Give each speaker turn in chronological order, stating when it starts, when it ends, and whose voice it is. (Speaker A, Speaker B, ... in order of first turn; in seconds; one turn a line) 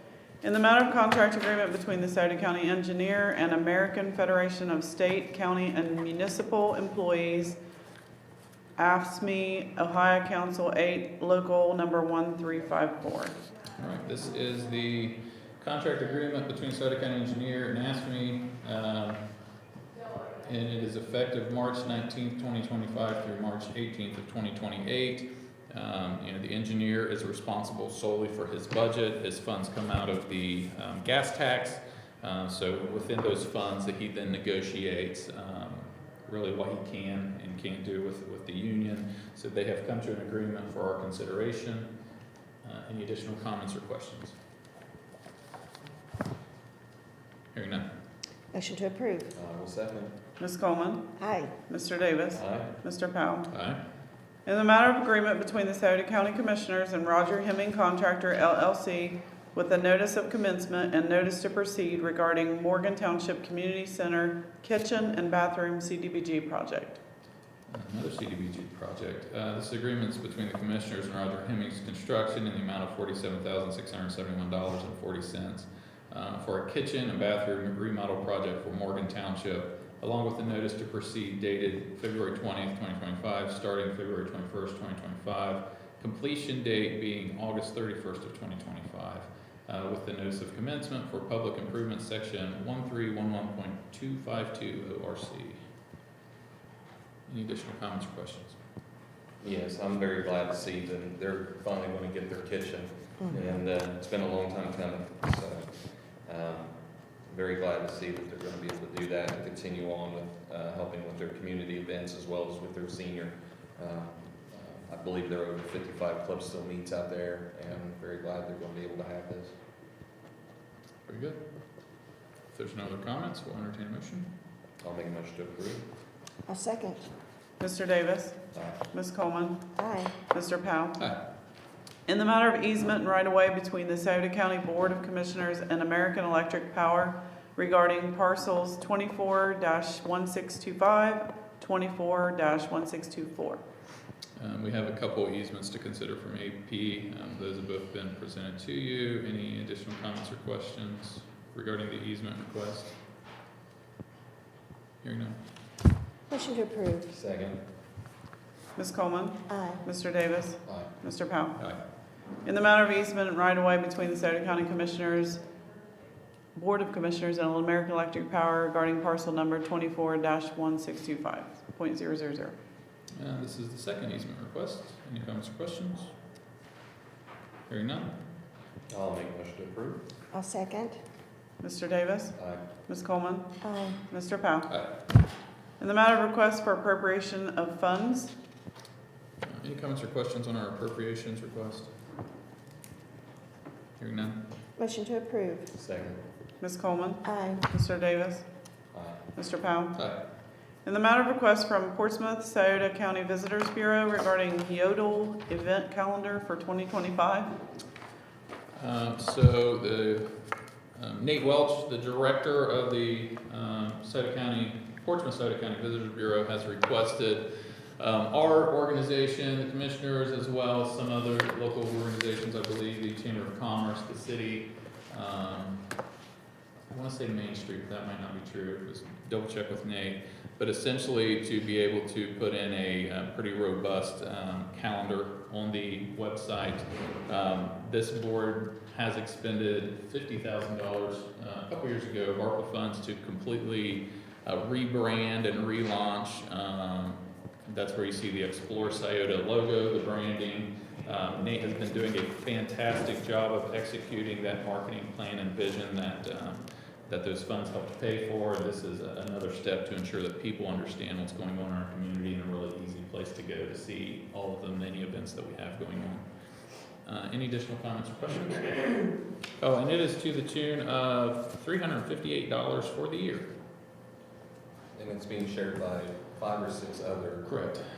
Speaker A: 0.4-7.6
Speaker A: 8.8-13.4
Speaker B: 13.8-19.2
Speaker B: 20.4-41.9
Speaker B: 42.6-44.4
Speaker B: 47.5-47.9
Speaker C: 48.5-49.3
Speaker D: 49.3-50.1
Speaker A: 50.4-51.1
Speaker C: 51.2-51.5
Speaker A: 51.7-53.5
Speaker D: 52.3-52.7
Speaker B: 53.5-53.8
Speaker A: 54.5-67.0
Speaker B: 67.7-95.6
Speaker B: 97.3-98.6
Speaker D: 99.4-119.5
Speaker B: 121.1-121.4
Speaker B: 122.5-124.3
Speaker D: 124.8-125.9
Speaker C: 126.5-127.1
Speaker A: 127.6-128.4
Speaker D: 128.5-128.8
Speaker A: 128.9-129.6
Speaker C: 129.8-130.2
Speaker A: 130.2-131.0
Speaker A: 132.1-143.6
Speaker B: 144.4-152.9
Speaker B: 155.0-155.4
Speaker C: 156.3-157.1
Speaker D: 157.1-157.6
Speaker A: 158.8-161.6
Speaker C: 159.5-159.8
Speaker A: 162.4-165.4
Speaker A: 166.6-172.6
Speaker B: 173.2-176.1
Speaker B: 177.7-178.2
Speaker D: 178.9-180.1
Speaker C: 180.3-181.0
Speaker A: 181.6-182.3
Speaker D: 182.4-182.6
Speaker A: 182.9-183.5
Speaker C: 183.6-184.0
Speaker A: 184.1-184.7
Speaker A: 185.8-188.3
Speaker B: 189.4-191.9
Speaker B: 194.0-194.4
Speaker C: 194.8-195.7
Speaker D: 195.8-196.2
Speaker A: 196.6-198.4
Speaker C: 197.2-197.6
Speaker D: 198.9-199.2
Speaker A: 199.4-200.0
Speaker A: 200.8-207.5
Speaker B: 208.8-210.4
Speaker B: 210.9-225.8
Speaker B: 226.9-266.2
Speaker B: 267.1-273.5
Speaker D: 274.9-277.5
Speaker B: 277.4-277.9